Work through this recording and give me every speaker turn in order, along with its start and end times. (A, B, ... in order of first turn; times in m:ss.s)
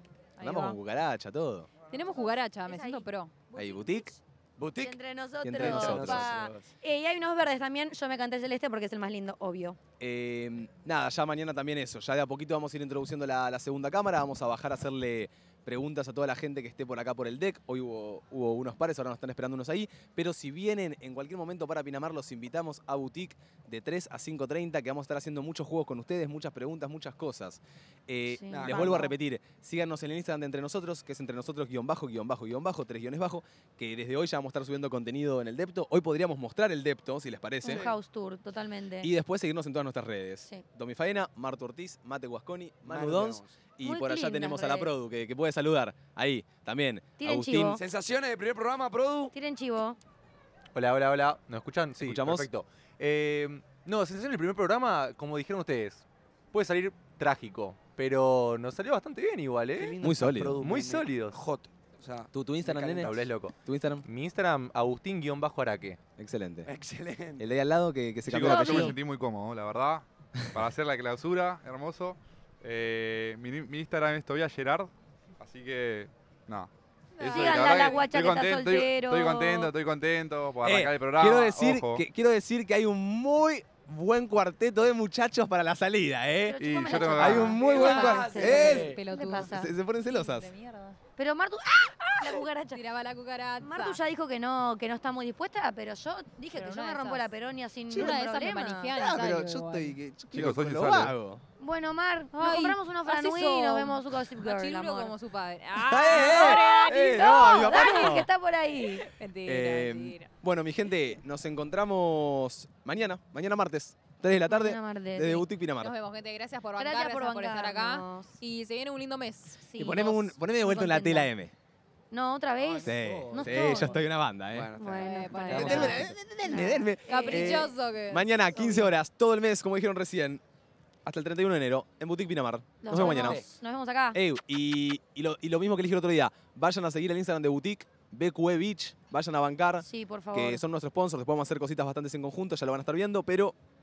0:00.4-0:00.8 A
0:00.4-0:01.7 B
0:01.9-0:03.3 A
0:01.9-0:04.2 C
0:03.6-0:04.1 B
0:04.6-0:04.9 D
0:04.6-0:06.7 B
0:04.8-0:09.8 C
0:05.6-0:06.4 D
0:10.0-0:37.9 B
0:28.3-0:29.1 C
0:28.5-0:29.1 D
0:37.6-0:39.1 C
0:37.6-0:38.0 D
0:39.0-0:47.8 B
0:42.8-0:43.6 D
0:43.8-0:44.9 C
0:47.2-0:47.8 C
0:47.8-0:49.3 D
0:49.3-0:50.0 C
0:50.7-1:00.0 E
0:52.0-0:52.5 B
0:59.8-1:03.3 D
1:00.0-1:00.6 B
1:00.6-1:01.4 E
1:02.3-1:04.0 B
1:03.0-1:06.0 E
1:06.2-1:06.7 B
1:06.7-1:07.4 D
1:07.4-1:09.0 B
1:08.3-1:22.0 F
1:08.5-1:09.0 C
1:17.2-1:18.1 A
1:17.3-1:19.7 C
1:20.6-1:30.5 B
1:26.5-1:29.7 C
1:26.6-1:27.7 F
1:27.4-1:29.0 D
1:27.7-1:31.0 A
1:31.2-1:32.8 C
1:32.2-1:34.0 A
1:33.6-1:38.9 C
1:36.5-1:37.3 A
1:37.9-1:38.2 B
1:38.0-1:40.0 A
1:38.9-1:41.4 B
1:40.3-1:41.2 F
1:41.6-1:45.2 C
1:42.3-1:48.2 A
1:45.8-1:48.3 B
1:46.1-1:49.0 C
1:49.0-1:50.3 A
1:49.4-1:55.9 B
1:54.5-1:55.5 C
1:55.8-1:59.6 A
1:56.8-1:58.4 C
1:59.6-2:01.3 C
1:59.8-2:01.5 B
2:02.1-2:04.0 C
2:02.6-2:04.0 D
2:02.8-2:04.7 B
2:04.5-2:06.2 D
2:04.8-2:07.7 C
2:05.0-2:06.1 A
2:05.6-2:10.4 B
2:07.1-2:08.3 A
2:08.5-2:08.9 C
2:11.0-2:13.4 B
2:12.8-2:14.2 C
2:12.9-2:13.4 D
2:14.1-2:23.6 B
2:19.8-2:20.6 C